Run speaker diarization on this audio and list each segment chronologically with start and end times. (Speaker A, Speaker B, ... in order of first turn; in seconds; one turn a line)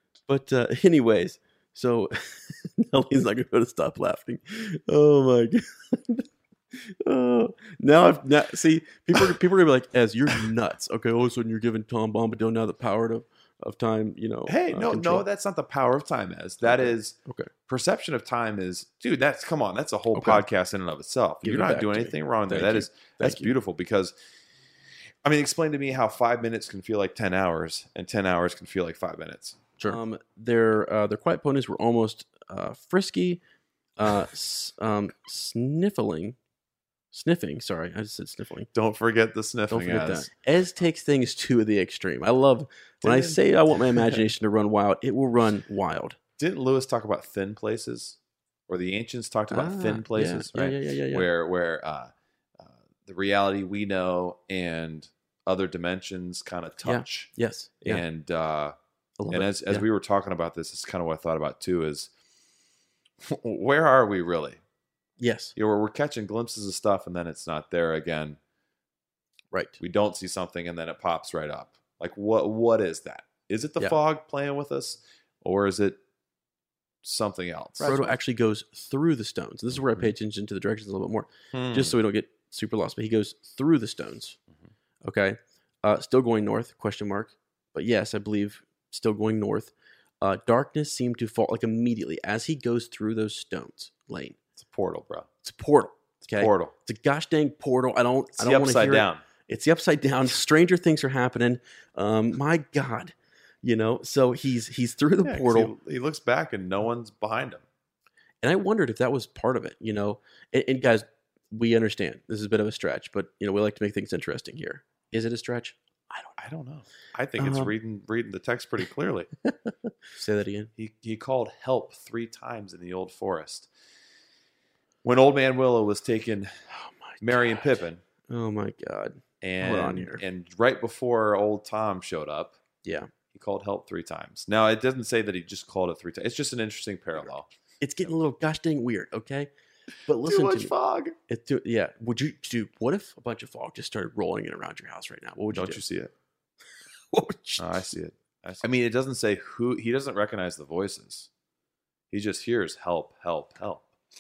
Speaker A: 0.3-15.2
Speaker B: 14.5-24.1
Speaker A: 16.6-17.5
Speaker A: 20.1-20.4
Speaker A: 21.4-23.5
Speaker B: 25.2-30.0
Speaker A: 29.8-33.4
Speaker A: 34.0-36.4
Speaker A: 37.1-38.7
Speaker B: 38.7-40.3
Speaker A: 39.7-46.2
Speaker B: 43.0-44.2
Speaker B: 46.4-57.3
Speaker A: 49.5-51.3
Speaker A: 56.8-58.0
Speaker B: 57.8-58.7
Speaker A: 59.2-59.9
Speaker B: 59.3-62.1
Speaker B: 63.2-64.6
Speaker A: 65.2-65.5
Speaker B: 65.6-68.4
Speaker B: 69.8-76.0
Speaker B: 77.0-78.2
Speaker A: 77.8-84.4
Speaker B: 79.8-80.1
Speaker B: 81.5-82.0
Speaker A: 85.0-94.4
Speaker B: 94.6-95.3
Speaker A: 95.4-105.7
Speaker B: 96.3-96.7
Speaker B: 98.4-99.2
Speaker B: 105.2-107.6
Speaker A: 108.4-116.3
Speaker B: 116.4-119.3
Speaker A: 117.4-117.7
Speaker A: 120.1-120.7
Speaker B: 120.8-123.7
Speaker B: 125.0-126.5
Speaker A: 126.7-130.2
Speaker B: 127.2-128.0
Speaker B: 129.4-132.6
Speaker A: 132.8-133.1
Speaker B: 133.3-137.5
Speaker A: 137.8-139.5
Speaker A: 140.1-140.7
Speaker B: 140.3-141.2
Speaker A: 141.3-145.8
Speaker B: 145.5-146.1
Speaker A: 147.1-147.9
Speaker B: 147.6-151.3
Speaker B: 152.1-153.9